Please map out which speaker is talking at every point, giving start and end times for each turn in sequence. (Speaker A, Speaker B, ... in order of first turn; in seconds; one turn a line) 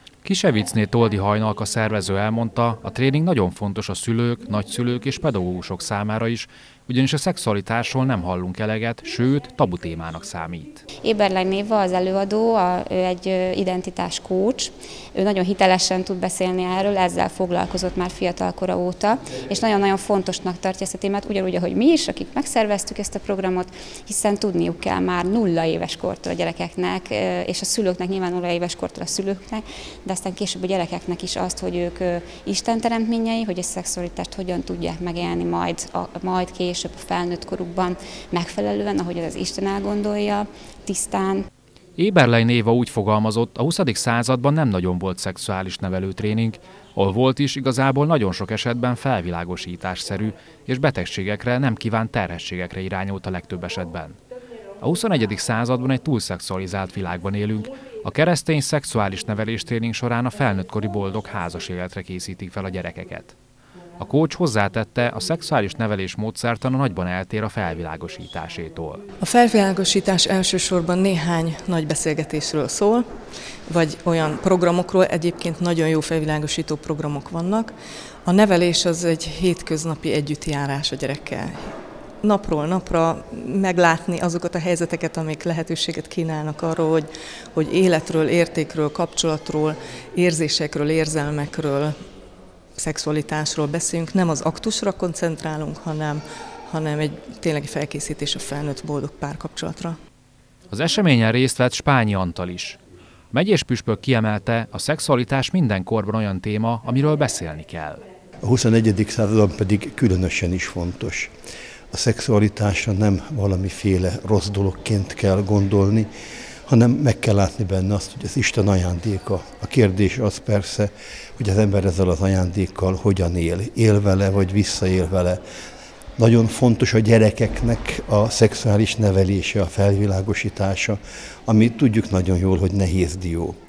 Speaker A: 0.2-10.8
Speaker B: 11.0-41.4
Speaker A: 42.0-54.2
Speaker A: 54.8-63.4
Speaker A: 64.0-69.0
Speaker C: 69.2-73.0
Speaker C: 73.7-77.7
Speaker C: 78.2-91.9
Speaker C: 92.8-100.0
Speaker A: 100.7-102.8
Speaker A: 103.3-108.0
Speaker D: 108.4-111.3
Speaker D: 111.9-116.1
Speaker D: 116.7-125.4
Speaker D: 126.2-133.5